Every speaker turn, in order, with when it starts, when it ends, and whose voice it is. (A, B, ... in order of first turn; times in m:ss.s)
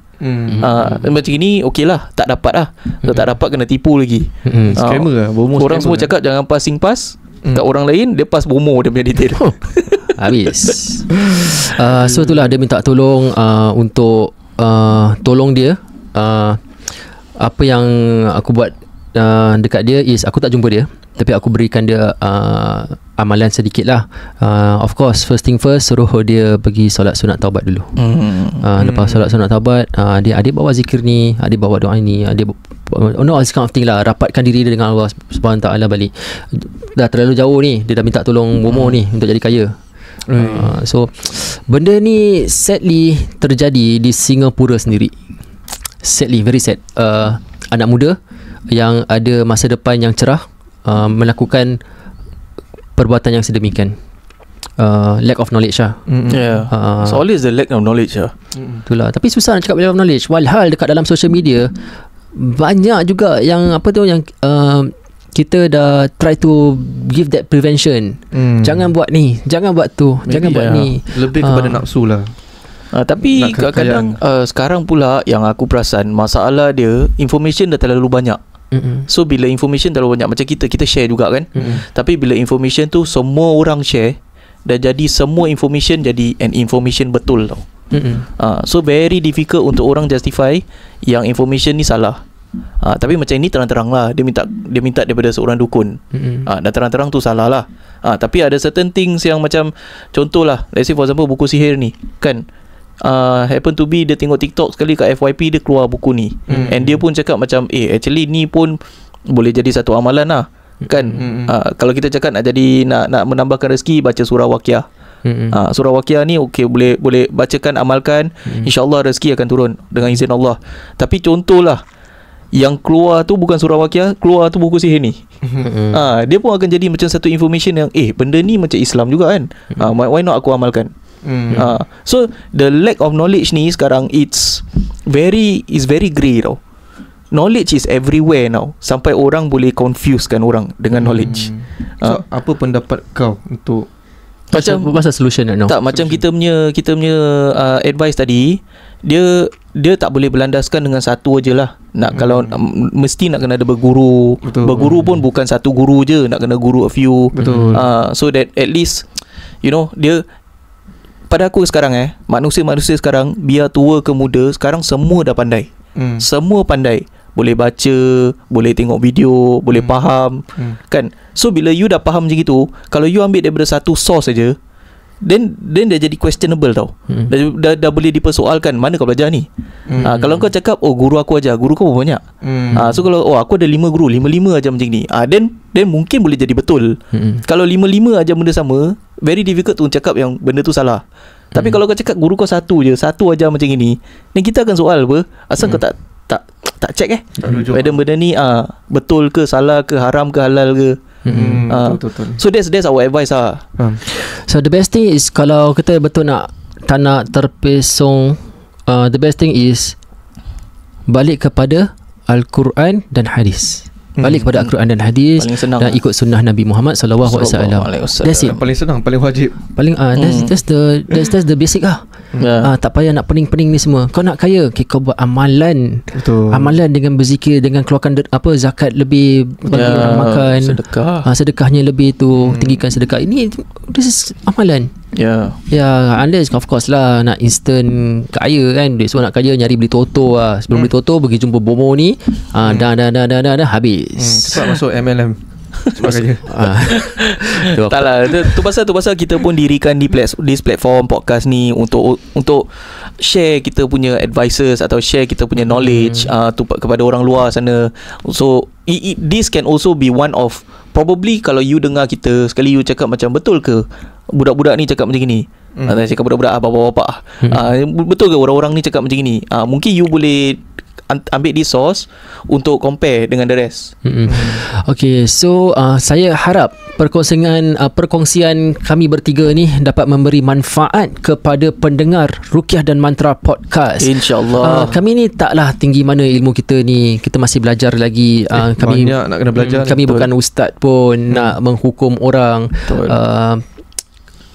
0:00.2-0:00.8 A
0:00.5-0:00.9 B
0:00.6-0:10.7 C
0:04.4-0:04.8 B
0:04.7-0:06.1 A
0:09.3-0:16.6 B
0:17.4-0:27.9 B
0:28.0-0:28.6 C
0:28.6-0:39.7 B
0:28.8-0:29.3 A
0:40.3-0:40.7 A
0:40.4-0:45.1 B
0:46.0-0:48.2 B
0:48.7-0:51.8 B
0:53.0-0:54.0 B
0:54.8-0:56.0 B
0:56.1-0:56.5 A
0:56.3-0:58.3 C
0:56.7-0:57.2 B
0:58.6-0:58.8 A
0:58.8-1:01.7 B
1:02.3-1:11.8 B
1:08.3-1:08.9 A
1:10.3-1:10.9 C
1:11.1-1:12.3 A
1:12.9-1:18.4 C
1:13.2-1:14.2 A
1:18.7-1:19.0 B
1:19.1-1:27.6 C
1:27.9-1:28.2 B
1:28.4-1:32.2 C
1:32.8-1:42.4 C
1:36.1-1:36.5 B
1:43.0-1:48.8 C
1:46.5-1:46.9 A
1:46.5-1:46.9 B
1:49.3-1:54.8 C
1:50.8-1:51.2 B
1:51.2-1:51.5 A
1:55.2-1:55.5 B
1:55.5-2:01.8 C
2:02.5-2:05.2 C
2:05.6-2:06.0 B
2:05.9-2:10.9 C
2:11.2-2:11.7 A
2:11.5-2:16.6 C
2:17.3-2:22.2 C
2:20.9-2:23.9 A
2:24.5-2:24.9 C
2:24.5-2:25.7 B
2:25.7-2:39.0 C
2:25.9-2:26.2 A
2:32.1-2:32.6 A
2:34.4-2:35.1 A
2:37.4-2:37.9 A
2:37.4-2:37.8 B
2:39.6-2:40.2 C
2:41.3-2:45.7 C
2:46.0-2:46.2 A
2:46.2-2:54.6 C
2:49.7-2:50.0 A
2:55.2-2:59.5 C
2:59.9-3:00.1 A
3:00.0-3:00.5 B
3:00.0-3:02.2 C
3:02.4-3:02.9 A
3:02.7-3:11.0 C
3:07.1-3:07.4 B
3:11.5-3:11.8 B
3:11.5-3:21.0 C
3:17.4-3:18.0 A
3:21.2-3:21.7 B
3:21.3-3:22.4 A
3:21.7-3:23.6 C
3:24.1-3:30.0 B
3:31.1-3:38.6 B
3:34.2-3:34.5 A
3:35.4-3:36.0 C
3:37.2-3:38.6 C
3:38.4-3:39.6 A
3:39.8-3:42.0 B
3:40.2-3:40.5 C
3:42.4-3:42.7 C
3:42.6-3:54.9 B
3:46.1-3:46.8 A
3:49.7-3:50.2 A
3:49.7-3:51.2 C
3:55.1-3:55.6 C
3:55.7-4:04.7 B
4:04.2-4:05.4 A
4:05.9-4:06.6 A
4:06.0-4:08.6 B
4:06.9-4:33.9 C
4:15.7-4:16.3 B
4:34.0-4:53.6 B
4:34.3-4:34.6 A
4:44.0-4:45.0 C
4:48.5-4:50.0 A
4:49.7-4:50.3 C
4:52.9-4:53.1 C